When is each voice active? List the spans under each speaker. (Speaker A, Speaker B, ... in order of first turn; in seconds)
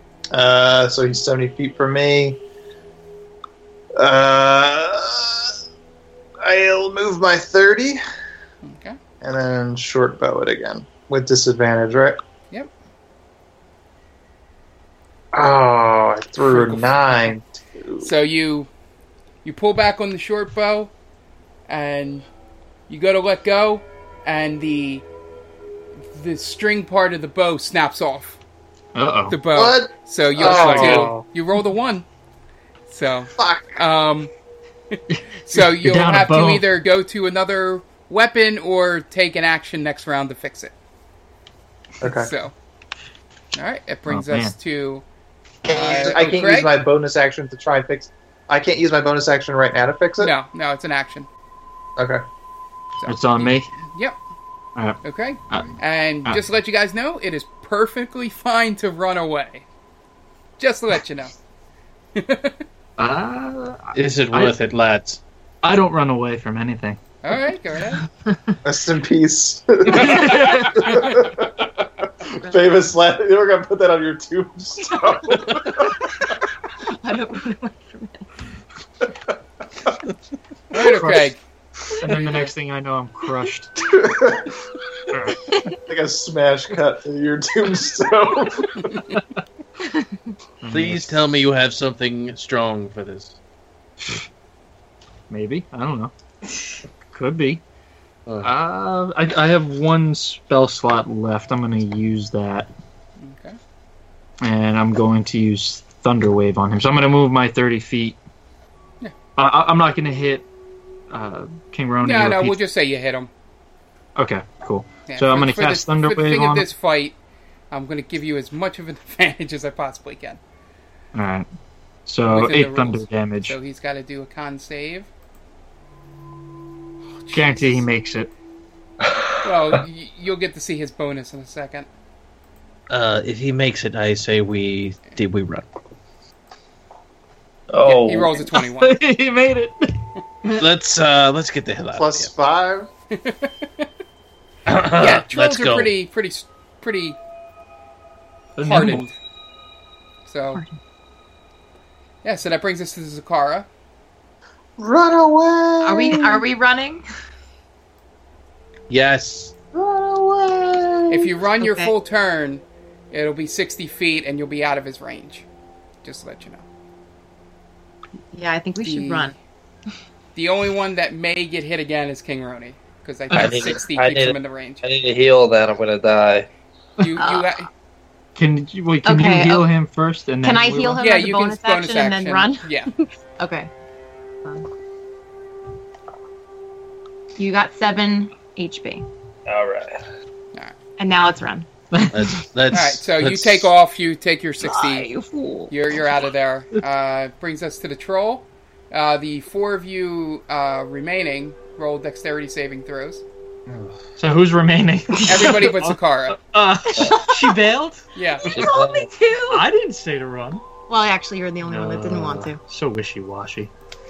Speaker A: 0.3-2.4, 3.9-5.5, 6.4-8.0, 9.2-12.2, 15.3-18.1, 29.5-31.2, 33.4-33.8, 42.0-42.3, 45.6-50.3, 52.0-52.2, 68.6-76.0, 83.9-84.6, 85.9-88.9, 141.9-142.9, 154.8-156.4, 159.7-161.3
Speaker B: 8.6-9.0, 16.4-17.3, 18.0-18.7, 19.4-20.9, 21.7-22.3, 22.9-25.1, 26.1-28.4, 29.3-32.0, 32.9-34.3, 34.9-40.7, 42.0-42.5, 43.5-45.0, 45.7-46.7, 50.2-51.3, 53.0-54.2, 55.0-59.6, 60.6-61.4, 62.1-62.6, 67.2-68.0, 69.9-71.2, 80.7-81.4, 103.2-103.6, 112.0-113.3, 115.1-117.2, 117.7-120.4, 122.3-125.1, 127.2-127.8, 129.4-131.9, 137.8-139.0, 143.2-143.8, 144.9-147.2, 148.6-149.1, 150.2-150.6, 152.2-153.7, 161.1-165.4, 166.0-166.7, 168.8-169.3, 170.3-174.8, 177.0-177.7, 181.0-182.9, 192.7-195.1, 195.7-203.2, 205.3-206.4, 208.1-208.5
Speaker C: 28.9-29.4, 30.4-31.1, 35.1-36.6, 44.1-44.5, 53.0-53.7, 63.0-64.5, 65.6-67.0, 68.2-68.5, 69.9-71.2, 80.7-81.3, 82.0-84.0, 85.1-85.6, 90.6-91.2, 94.0-94.2, 95.3-97.6, 98.4-102.7, 104.4-108.2, 109.3-110.4, 111.1-112.6, 114.2-116.7, 121.1-121.5, 122.0-123.6, 127.3-128.3, 138.5-140.6, 148.6-149.1, 173.3-173.8, 178.3-181.0, 191.9-192.3, 195.1-195.7, 204.2-208.0, 209.4-210.6, 211.6-213.7
Speaker D: 63.9-65.2, 90.7-93.3, 98.3-98.5, 132.9-135.7, 140.6-142.3, 144.7-145.9, 158.9-159.5, 192.1-193.7, 203.7-203.9
Speaker E: 72.3-72.6, 76.8-78.3, 155.8-157.0, 161.6-161.9, 168.3-169.3, 177.2-177.6, 179.0-179.7, 180.4-183.7, 187.4-189.1, 191.0-191.7, 194.9-195.4, 208.4-209.7, 210.9-212.6
Speaker F: 129.0-129.3, 137.7-138.5, 173.3-176.5, 189.4-190.0, 206.9-207.2, 208.5-209.1